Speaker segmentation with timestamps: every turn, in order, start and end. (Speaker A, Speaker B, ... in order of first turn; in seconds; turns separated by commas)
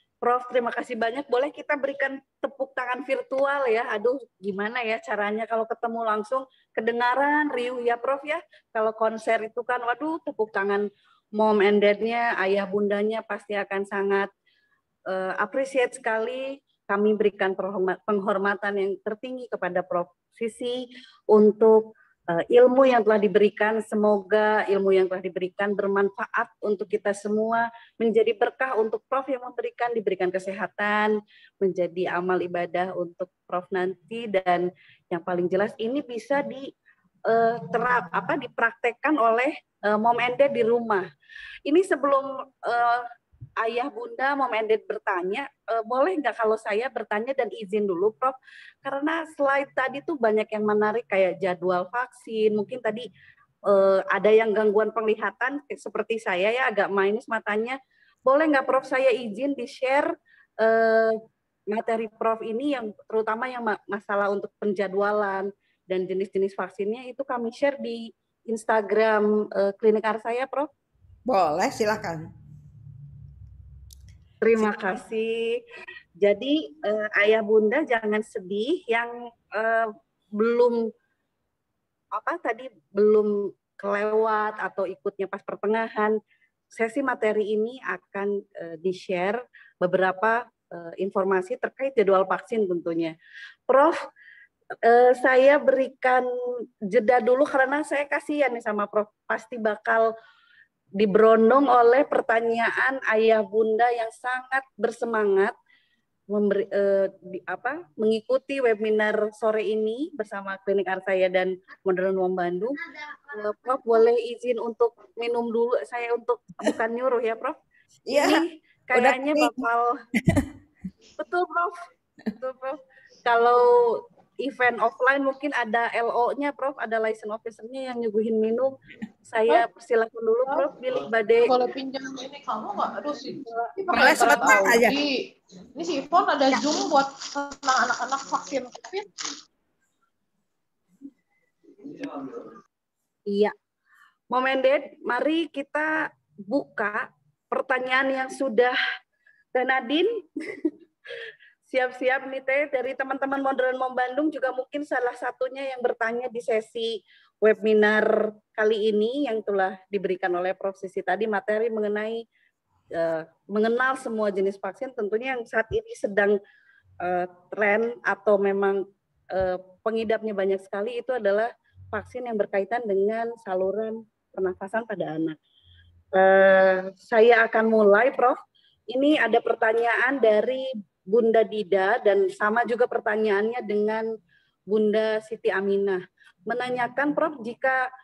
Speaker A: 0.2-10.8, Speaker A: 11.4-14.3, Speaker A: 15.1-36.7, Speaker A: 37.3-41.1, Speaker A: 41.7-43.0, Speaker A: 43.6-53.1, Speaker A: 53.7-60.1, Speaker A: 60.6-61.2, Speaker A: 61.7-70.7, Speaker B: 71.3-72.3, Speaker A: 74.4-75.6, Speaker A: 76.2-80.8, Speaker A: 82.1-86.2, Speaker A: 86.7-93.1, Speaker A: 93.7-94.0, Speaker A: 94.8-96.3, Speaker A: 96.9-100.1, Speaker A: 101.0-105.5, Speaker A: 106.3-117.6, Speaker B: 118.1-118.4, Speaker A: 118.1-120.0, Speaker B: 118.9-119.7, Speaker A: 121.2-121.8, Speaker A: 122.4-128.7, Speaker A: 129.3-131.5, Speaker C: 131.4-139.1, Speaker B: 133.9-134.9, Speaker C: 141.9-142.4, Speaker A: 143.3-143.5, Speaker A: 144.3-148.8, Speaker A: 149.5-150.7, Speaker A: 151.7-162.2, Speaker A: 162.9-166.4, Speaker A: 167.0-175.4, Speaker A: 176.1-178.4, Speaker A: 178.9-184.1, Speaker A: 184.7-187.8